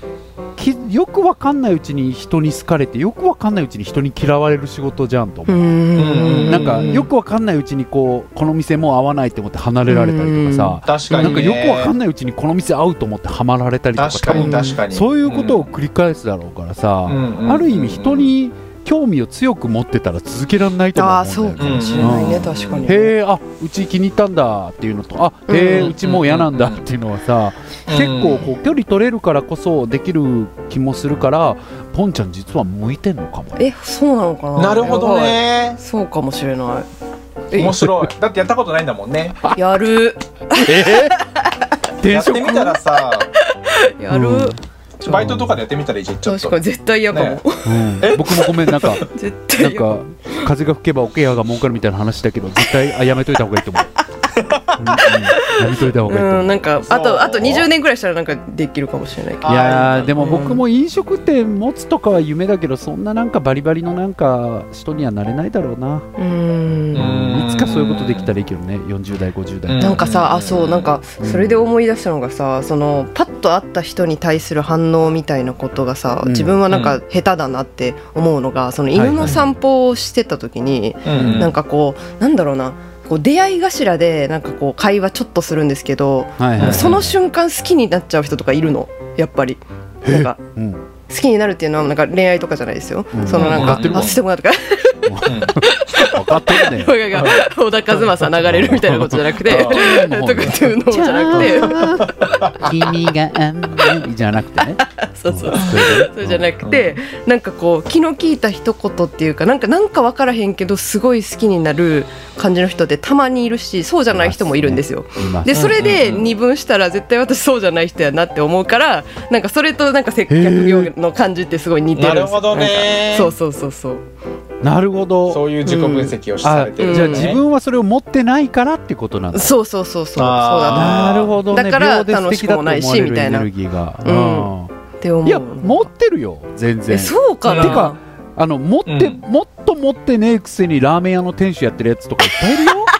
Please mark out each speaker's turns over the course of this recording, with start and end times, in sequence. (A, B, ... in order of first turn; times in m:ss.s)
0:00.6-0:05.7 A
0:05.5-0:07.0 B
0:06.0-0:07.0 C
0:06.4-0:33.6 A
0:09.8-0:11.5 B
0:10.8-0:11.9 C
0:14.0-0:15.6 C
0:14.3-0:14.8 B
0:17.0-0:18.3 C
0:20.9-0:23.1 B
0:21.6-0:22.9 C
0:25.5-0:25.9 B
0:25.8-0:26.8 C
0:27.9-0:28.4 C
0:33.6-0:36.9 B
0:34.6-0:35.8 C
0:37.5-0:37.8 B
0:37.5-0:39.4 C
0:37.8-0:38.1 A
0:39.5-0:41.6 B
0:40.6-0:41.2 A
0:42.0-0:42.8 A
0:42.0-0:43.3 C
0:43.4-0:44.6 B
0:44.1-0:44.6 A
0:45.0-0:46.6 C
0:45.1-0:45.6 A
0:46.2-0:47.8 B
0:47.1-0:47.4 C
0:47.6-0:53.9 A
0:48.0-0:49.0 C
0:49.1-0:50.4 B
0:54.4-0:54.8 C
0:54.8-0:56.6 A
0:54.9-1:00.6 B
0:56.8-0:57.7 C
0:59.4-1:00.2 C
0:59.4-1:06.1 A
1:06.2-1:07.2 B
1:06.9-1:08.3 C
1:06.9-1:10.0 A
1:09.6-1:10.9 C
1:09.8-1:30.4 B
1:11.2-1:11.6 A
1:16.2-1:16.6 A
1:16.7-1:17.0 C
1:18.9-1:19.4 A
1:21.0-1:21.5 C
1:21.1-1:21.5 A
1:26.4-1:27.2 A
1:26.6-1:27.0 C
1:30.0-1:30.8 A
1:31.1-1:41.9 B
1:33.1-1:34.2 A
1:33.3-1:34.2 C
1:35.0-1:37.0 A
1:35.2-1:35.6 C
1:37.1-1:37.4 C
1:38.3-1:46.5 A
1:39.5-1:39.9 C
1:41.3-1:42.7 C
1:44.8-2:04.0 B
1:46.6-1:47.0 C
1:54.1-1:55.8 A
1:55.5-1:56.3 C
2:00.3-2:00.9 A
2:02.0-2:03.3 C
2:04.6-2:05.4 A
2:05.3-2:07.4 C
2:05.6-2:06.1 B
2:06.4-2:09.5 A
2:06.8-2:07.3 B
2:09.3-2:13.5 B
2:10.2-2:11.4 C
2:10.7-2:14.7 A
2:14.0-2:15.9 B
2:15.2-2:22.9 A
2:16.9-2:18.0 B
2:17.4-2:17.9 C
2:18.8-2:19.2 C